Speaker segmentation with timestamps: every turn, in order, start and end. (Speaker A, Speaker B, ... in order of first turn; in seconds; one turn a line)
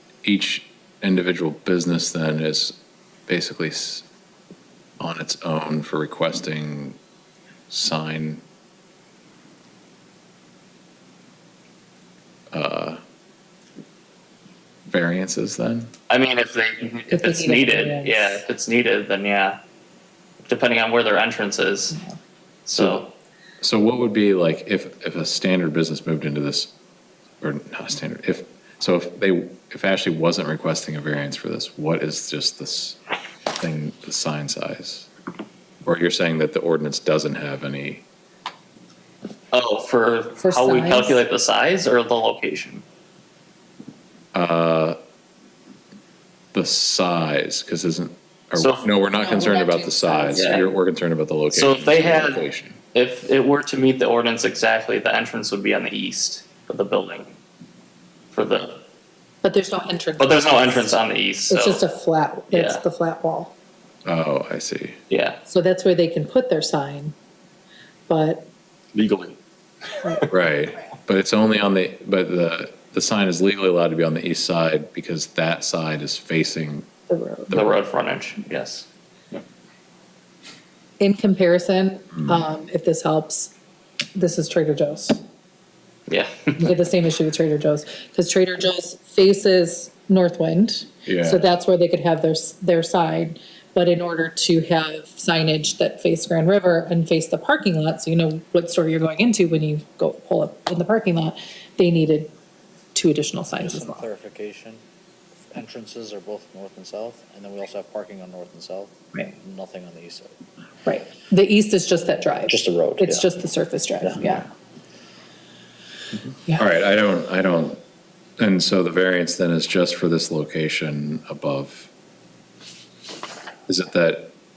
Speaker A: 0.2-4.0
Speaker A: 5.0-7.0
Speaker A: 7.7-8.4
Speaker A: 12.5-13.0
Speaker A: 14.9-15.9
Speaker B: 16.1-19.6
Speaker C: 17.1-18.4
Speaker B: 20.4-22.0
Speaker B: 22.6-23.1
Speaker A: 23.6-26.7
Speaker A: 27.4-33.0
Speaker A: 33.6-35.1
Speaker A: 35.8-38.0
Speaker B: 39.5-42.8
Speaker C: 40.4-41.2
Speaker A: 44.3-45.0
Speaker A: 46.5-52.8
Speaker B: 48.5-48.8
Speaker C: 49.1-50.6
Speaker B: 50.3-50.6
Speaker B: 51.5-52.4
Speaker B: 52.9-57.3
Speaker B: 58.3-58.8
Speaker C: 59.4-63.5
Speaker B: 60.2-61.8
Speaker B: 62.5-62.8
Speaker A: 64.0-65.0
Speaker B: 65.1-65.4
Speaker C: 65.5-67.1
Speaker C: 68.1-68.5
Speaker B: 68.9-69.3
Speaker A: 70.3-76.9
Speaker C: 77.1-77.6
Speaker A: 77.5-77.7
Speaker B: 77.5-78.9
Speaker C: 81.0-83.5
Speaker A: 82.2-82.4
Speaker C: 84.1-85.2
Speaker B: 86.1-86.7
Speaker C: 86.6-102.3
Speaker A: 91.0-91.5
Speaker C: 102.9-104.0
Speaker D: 103.6-104.8
Speaker D: 105.5-110.3
Speaker C: 110.8-114.4
Speaker D: 112.5-113.3
Speaker D: 114.0-114.5
Speaker A: 116.1-117.8
Speaker A: 118.4-121.9
Speaker A: 123.7-124.3